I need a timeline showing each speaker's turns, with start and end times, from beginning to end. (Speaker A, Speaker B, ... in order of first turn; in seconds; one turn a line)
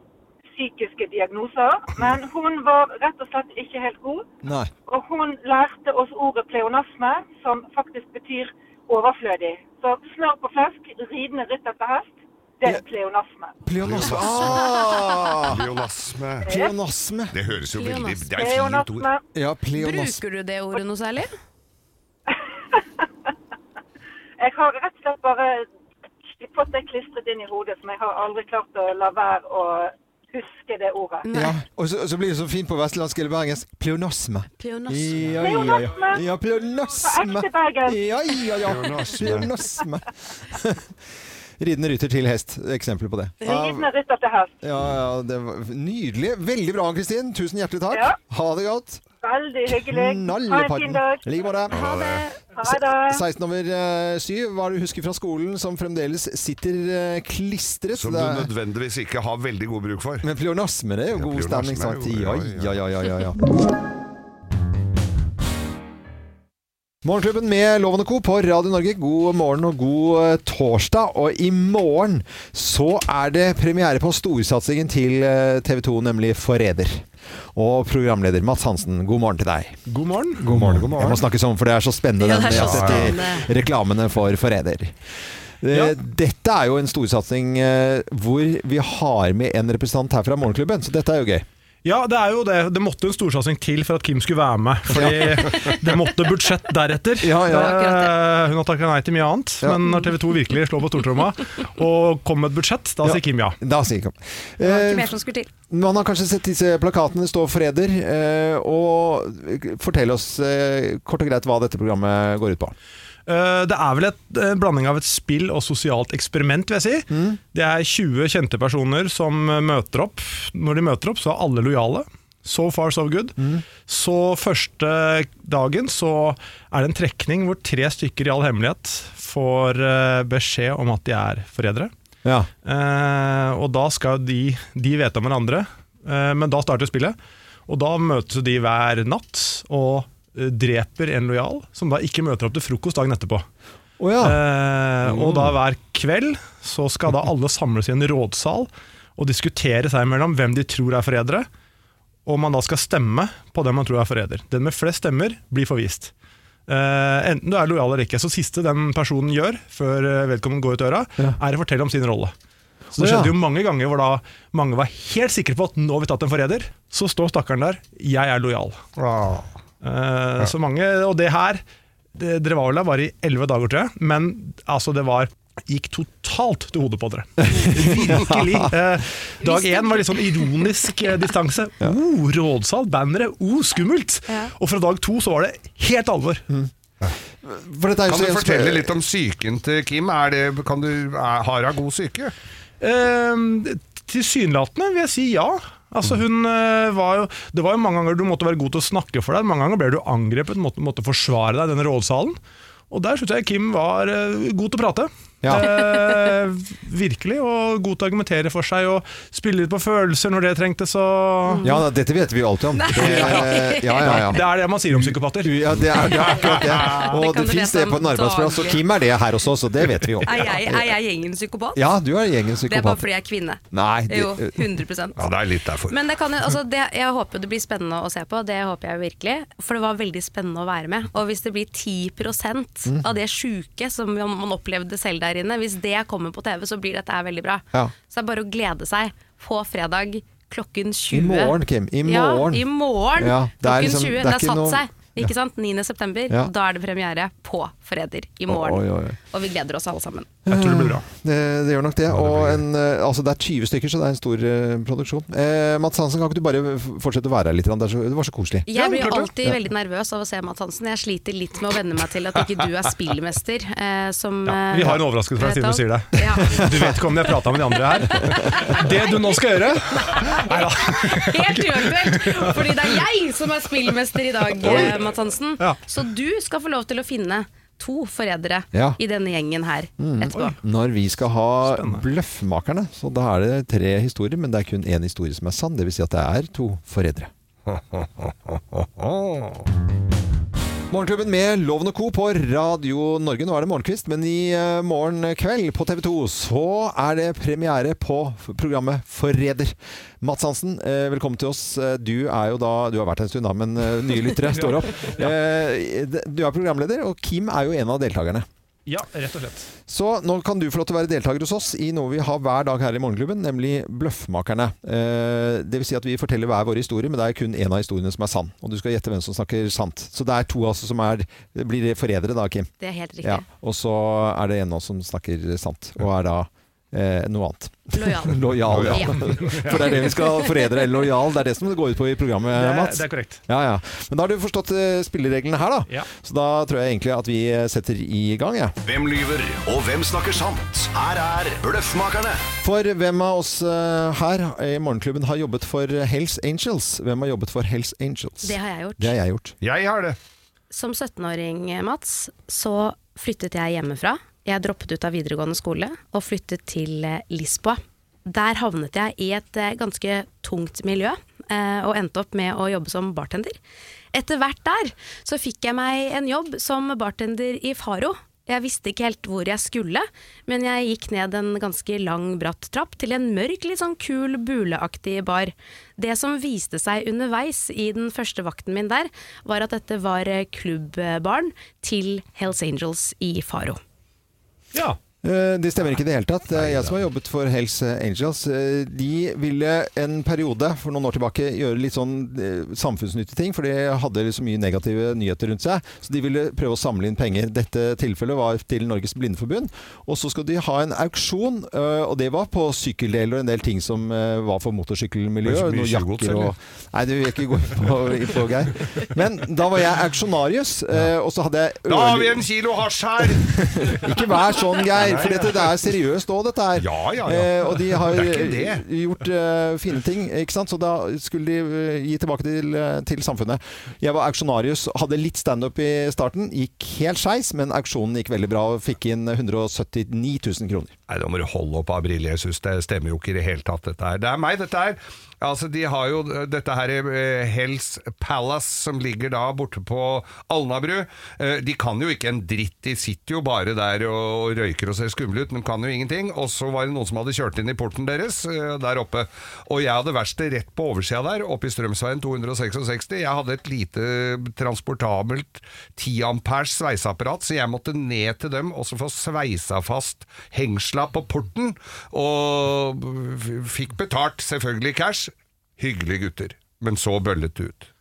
Speaker A: 0.5-4.3
Speaker B: 4.4-4.7
Speaker A: 4.9-13.6
Speaker B: 13.6-15.6
Speaker C: 13.8-14.7
Speaker D: 14.4-15.1
Speaker C: 15.5-16.5
Speaker A: 16.4-16.7
Speaker B: 16.5-17.3
Speaker C: 17.3-19.1
Speaker D: 17.7-18.4
Speaker A: 18.4-19.2
Speaker B: 19.4-20.2
Speaker D: 19.8-21.3
Speaker A: 22.3-22.8
Speaker A: 24.4-25.7
Speaker A: 26.3-31.3
Speaker D: 31.2-31.6
Speaker B: 31.3-40.9
Speaker D: 34.6-35.4
Speaker A: 35.4-36.2
Speaker A: 36.9-38.0
Speaker C: 38.6-39.5
Speaker B: 41.6-43.9
Speaker A: 43.4-44.6
Speaker B: 44.6-49.0
Speaker A: 47.9-48.1
Speaker A: 49.2-51.6
Speaker B: 49.7-51.8
Speaker C: 51.7-52.2
Speaker D: 51.8-52.2
Speaker A: 52.3-53.2
Speaker B: 52.6-58.5
Speaker C: 58.0-60.3
Speaker B: 60.2-63.4
Speaker C: 61.1-62.8
Speaker B: 67.0-79.8
Speaker E: 79.9-81.1
Speaker B: 80.4-84.9
Speaker C: 80.5-81.2
Speaker D: 82.2-83.5
Speaker C: 82.5-83.1
Speaker B: 85.6-91.5
Speaker E: 85.7-86.0
Speaker E: 91.8-103.6
Speaker B: 94.9-95.6
Speaker B: 97.2-97.8
Speaker D: 97.5-98.2
Speaker B: 99.6-100.1
Speaker B: 103.0-105.1
Speaker D: 104.6-105.5
Speaker B: 105.7-112.8
Speaker E: 113.3-131.9
Speaker B: 117.1-117.4
Speaker B: 123.4-123.6
Speaker B: 132.2-132.5
Speaker E: 132.6-137.2
Speaker E: 137.7-143.5
Speaker B: 144.0-144.4
Speaker E: 144.2-151.5
Speaker E: 152.3-156.1
Speaker E: 156.7-162.3
Speaker E: 162.9-168.9
Speaker B: 163.0-163.3
Speaker C: 169.0-169.5
Speaker E: 169.8-171.6
Speaker E: 172.1-186.4
Speaker B: 177.5-178.7
Speaker D: 179.4-181.1
Speaker B: 187.4-188.9
Speaker C: 188.1-192.3
Speaker E: 192.8-202.4
Speaker E: 202.9-211.7
Speaker D: 211.5-211.8
Speaker B: 211.6-220.9
Speaker D: 212.8-214.3
Speaker E: 213.0-215.8
Speaker C: 216.4-217.1
Speaker D: 216.6-218.8
Speaker D: 220.2-221.9
Speaker B: 221.8-223.1
Speaker D: 222.7-225.2
Speaker B: 223.7-224.7
Speaker C: 225.2-225.9
Speaker D: 225.9-250.3
Speaker B: 241.1-245.3
Speaker B: 248.5-249.2
Speaker B: 250.5-259.6
Speaker E: 250.5-251.0
Speaker C: 252.1-252.6
Speaker D: 258.6-266.6
Speaker E: 258.8-259.3
Speaker E: 264.4-273.0
Speaker B: 266.5-266.9
Speaker D: 267.9-269.3
Speaker D: 269.9-280.6
Speaker E: 274.5-275.0
Speaker B: 274.6-274.9
Speaker B: 278.7-279.0
Speaker B: 280.0-287.3
Speaker E: 281.6-282.0
Speaker C: 287.7-289.6
Speaker B: 290.9-308.5
Speaker E: 304.4-305.3
Speaker E: 308.9-309.7
Speaker B: 309.9-322.7
Speaker D: 322.8-323.4
Speaker B: 323.2-338.8
Speaker D: 327.9-330.8
Speaker C: 328.6-330.1
Speaker E: 332.5-333.4
Speaker F: 338.8-342.4
Speaker B: 342.6-349.6
Speaker D: 348.4-349.1
Speaker C: 349.6-350.2
Speaker D: 350.7-363.6
Speaker D: 364.1-383.8
Speaker E: 384.7-385.0
Speaker B: 385.2-412.5
Speaker C: 386.5-387.0
Speaker C: 405.4-406.5
Speaker C: 411.9-414.1
Speaker B: 413.2-430.9
Speaker C: 414.9-415.8
Speaker C: 416.8-418.8
Speaker C: 431.1-467.9